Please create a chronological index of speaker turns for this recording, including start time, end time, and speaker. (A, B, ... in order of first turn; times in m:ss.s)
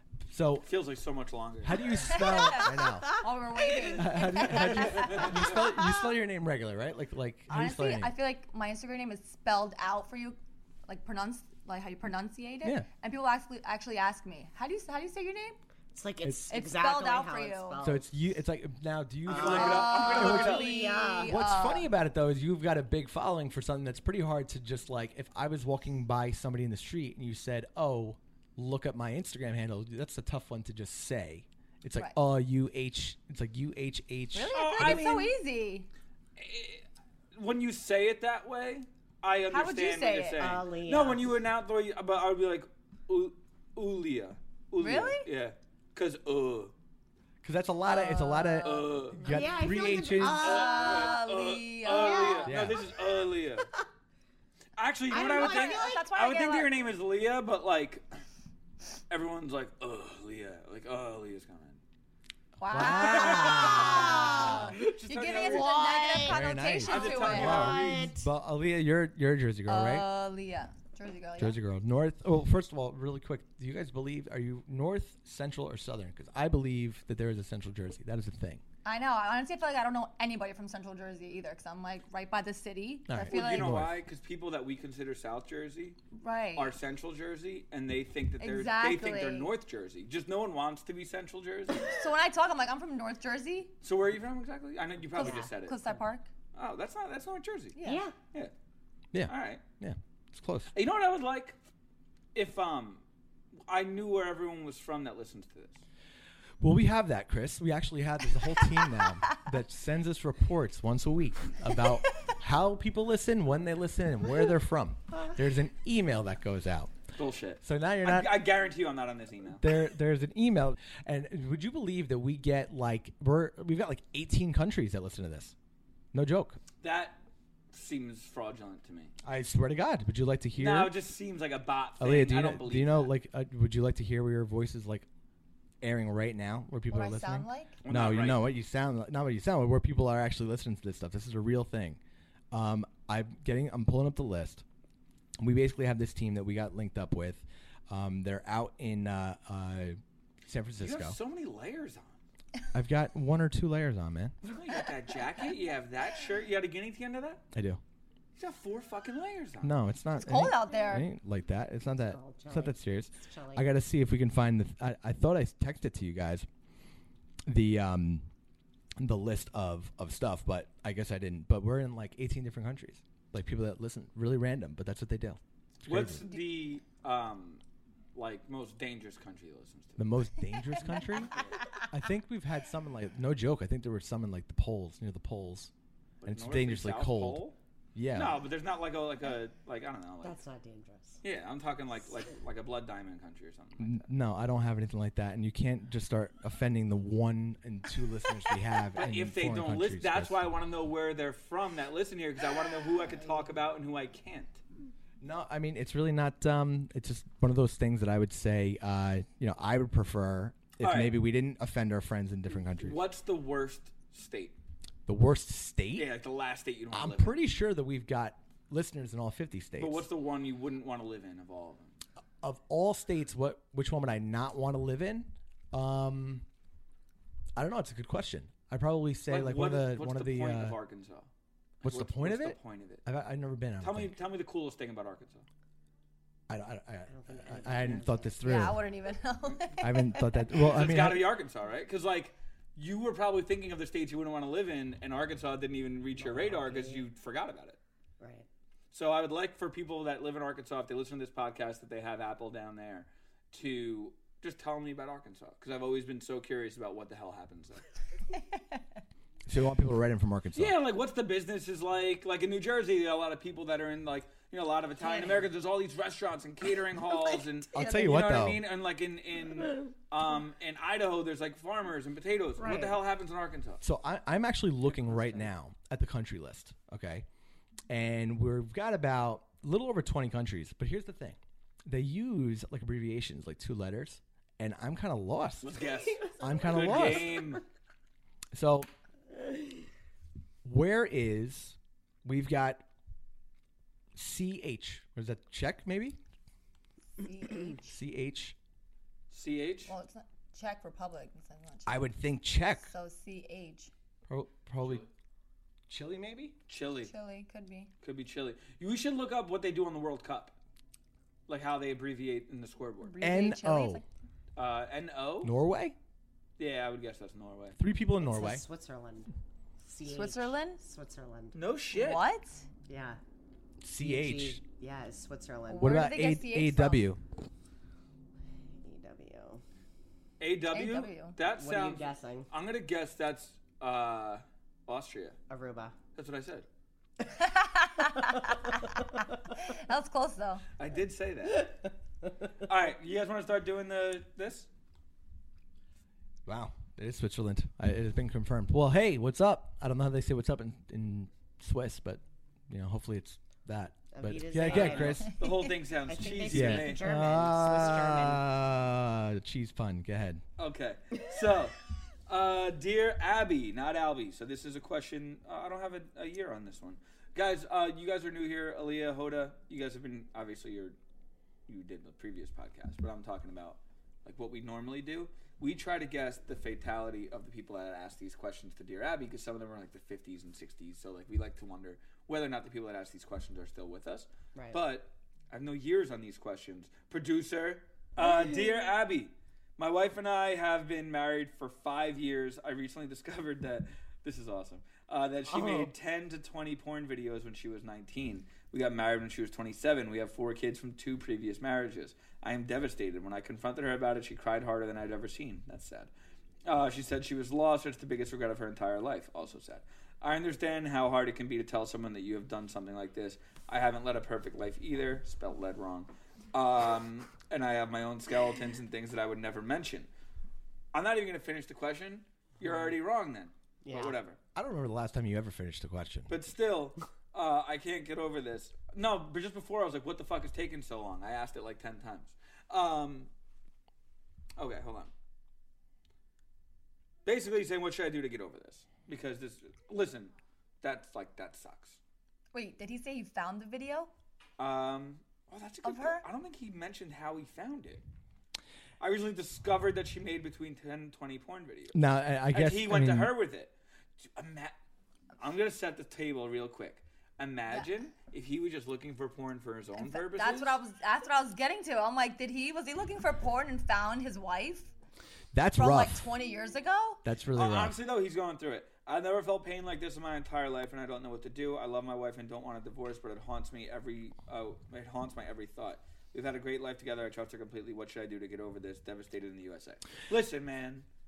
0:00.2-0:00.7 A
0:00.6-0:02.1 B
0:01.6-0:03.2 A
0:02.1-0:02.7 C
0:02.6-0:04.8 D
0:03.2-0:05.3 C
0:03.9-0:08.1 A
0:07.5-0:15.6 C
0:15.9-0:18.1 D
0:16.5-0:17.8 C
0:17.8-0:20.6 A
0:19.2-0:21.3 D
0:19.3-0:20.6 B
0:19.4-0:21.9 C
0:21.3-0:35.0 A
0:34.3-0:35.9 C
0:34.5-0:35.3 B
0:36.4-0:36.8 B
0:37.4-0:46.7 B
0:39.5-0:40.5 C
0:40.4-0:41.4 D
0:44.8-0:45.2 C
0:47.4-0:50.5 A
0:47.8-0:52.6 C
0:48.6-0:49.2 B
0:49.2-0:51.4 D
0:50.2-0:53.7 B
0:51.9-0:52.4 D
0:52.4-0:52.8 A
0:54.8-0:58.0 B
0:55.1-0:56.0 D
0:55.2-0:56.7 C
0:59.1-1:01.8 B
1:02.6-1:07.8 C
1:02.7-1:04.7 A
1:03.1-1:06.2 B
1:03.4-1:04.8 D
1:05.4-1:08.2 D
1:06.2-1:10.1 A
1:06.8-1:08.1 B
1:09.7-1:11.6 C
1:11.4-1:18.6 A
1:18.8-1:23.8 C
1:23.1-1:24.0 A
1:23.3-1:26.0 B
1:26.1-1:26.7 C
1:26.5-1:31.8 B
1:28.4-1:29.5 C
1:31.8-1:33.7 C
1:33.8-1:35.8 B
1:35.2-1:36.3 C
1:35.2-1:35.5 D
1:36.5-1:38.5 B
1:37.8-1:38.1 C
1:37.8-1:38.1 D
1:39.1-1:40.7 A
1:39.2-1:39.6 B
1:40.7-1:41.6 B
1:42.3-1:43.0 B
1:43.7-1:45.8 B
1:46.6-1:56.9 A
1:57.2-1:59.6 B
1:57.6-1:58.4 A
1:59.6-2:05.5 A
2:06.1-2:06.6 A
2:06.8-2:07.2 B
2:07.7-2:09.1 B
2:09.2-2:10.9 A
2:10.6-2:13.1 B
2:12.0-2:15.0 A
2:15.8-2:22.0 A
2:16.9-2:17.8 C
2:17.8-2:18.4 B
2:22.5-2:24.6 A
2:25.4-2:31.2 A
2:30.8-2:32.2 B
2:32.7-2:34.3 A
2:34.4-2:37.4 B
2:37.5-2:37.8 A
2:38.4-2:39.7 B
2:39.6-2:46.5 A
2:40.2-2:41.1 C
2:42.1-2:43.7 D
2:47.5-2:48.2 A
2:49.0-2:56.2 A
2:55.8-2:57.6 B
2:58.1-3:00.2 B
3:00.0-3:01.4 A
3:01.9-3:05.7 A
3:06.2-3:07.6 B
3:06.2-3:07.4 A
3:07.9-3:08.4 A
3:08.1-3:10.4 B
3:10.2-3:11.2 D
3:11.2-3:14.0 B
3:13.8-3:20.5 A
3:19.0-3:24.6 B
3:25.2-3:33.0 A
3:30.8-3:31.2 B
3:32.7-3:34.6 B
3:35.0-3:36.1 A
3:35.9-3:37.4 B
3:36.9-3:40.1 A
3:39.8-3:41.9 B
3:42.4-3:46.4 A
3:47.6-3:50.8 A
3:49.3-3:51.3 B
3:51.8-3:54.1 A
3:51.8-3:53.0 B
3:53.8-3:55.4 B
3:56.5-3:58.8 A
3:57.1-3:58.4 D
3:58.4-4:00.6 C
3:59.8-4:01.3 A
4:00.6-4:07.8 B
4:06.2-4:07.0 D
4:08.2-4:08.5 D
4:08.9-4:17.8 B
4:18.5-4:18.8 C
4:19.5-4:20.8 A
4:20.5-4:33.8 B
4:25.0-4:25.5 D
4:27.7-4:28.6 A
4:32.6-4:33.0 D
4:33.8-4:37.2 A
4:34.9-4:35.5 D
4:37.9-4:45.8 A
4:45.6-4:47.6 B
4:46.2-4:47.3 D
4:46.4-4:47.4 A
4:48.5-4:48.9 A
4:50.6-4:52.8 A
4:54.1-4:56.2 A
4:57.2-4:58.0 C
4:57.9-4:58.5 A
4:59.3-4:59.9 B
4:59.9-5:02.0 C
5:01.8-5:02.9 A
5:02.8-5:03.9 C
5:04.3-5:05.0 A
5:05.9-5:06.5 A
5:06.7-5:07.1 B
5:07.0-5:07.9 C
5:08.0-5:10.5 B
5:11.5-5:13.2 B
5:13.0-5:14.0 C
5:13.2-5:14.0 A
5:14.6-5:15.5 B
5:15.4-5:16.0 A
5:16.6-5:17.8 B
5:17.8-5:18.6 A
5:18.2-5:19.3 D
5:19.8-5:21.6 D
5:20.1-5:20.8 C
5:21.5-5:22.2 B
5:21.9-5:22.6 C
5:22.9-5:23.2 D
5:23.8-5:24.6 A
5:24.0-5:26.0 D
5:25.7-5:27.0 C
5:25.8-5:27.2 A
5:28.7-5:29.6 D
5:30.4-5:35.4 B
5:30.7-5:31.4 C
5:31.4-5:32.5 D
5:35.5-5:35.9 D
5:36.1-5:36.6 B
5:37.4-5:38.7 C
5:39.7-5:40.6 C
5:40.8-5:41.7 B
5:42.6-5:44.7 B
5:46.4-5:55.3 A
5:54.1-5:55.4 D
5:54.5-5:57.1 B
5:56.1-5:58.4 D
5:56.4-6:00.4 A
6:00.6-6:01.8 B
6:02.3-6:11.0 B
6:11.7-6:46.1 B
6:24.5-6:24.8 D
6:46.6-7:00.1 B
7:00.9-7:04.4 B
7:03.8-7:04.2 D
7:04.5-7:06.3 A
7:06.3-7:13.3 B
7:14.6-7:15.1 B
7:17.2-7:22.0 B
7:22.5-7:24.1 C
7:24.6-7:28.0 B
7:25.8-7:26.2 C
7:29.0-7:32.0 B
7:31.9-7:33.3 A
7:32.5-7:34.7 B
7:35.4-7:40.8 B
7:40.0-7:44.9 C
7:45.5-7:46.2 A
7:45.7-7:47.2 C
7:47.2-7:48.0 A
7:47.5-8:01.0 B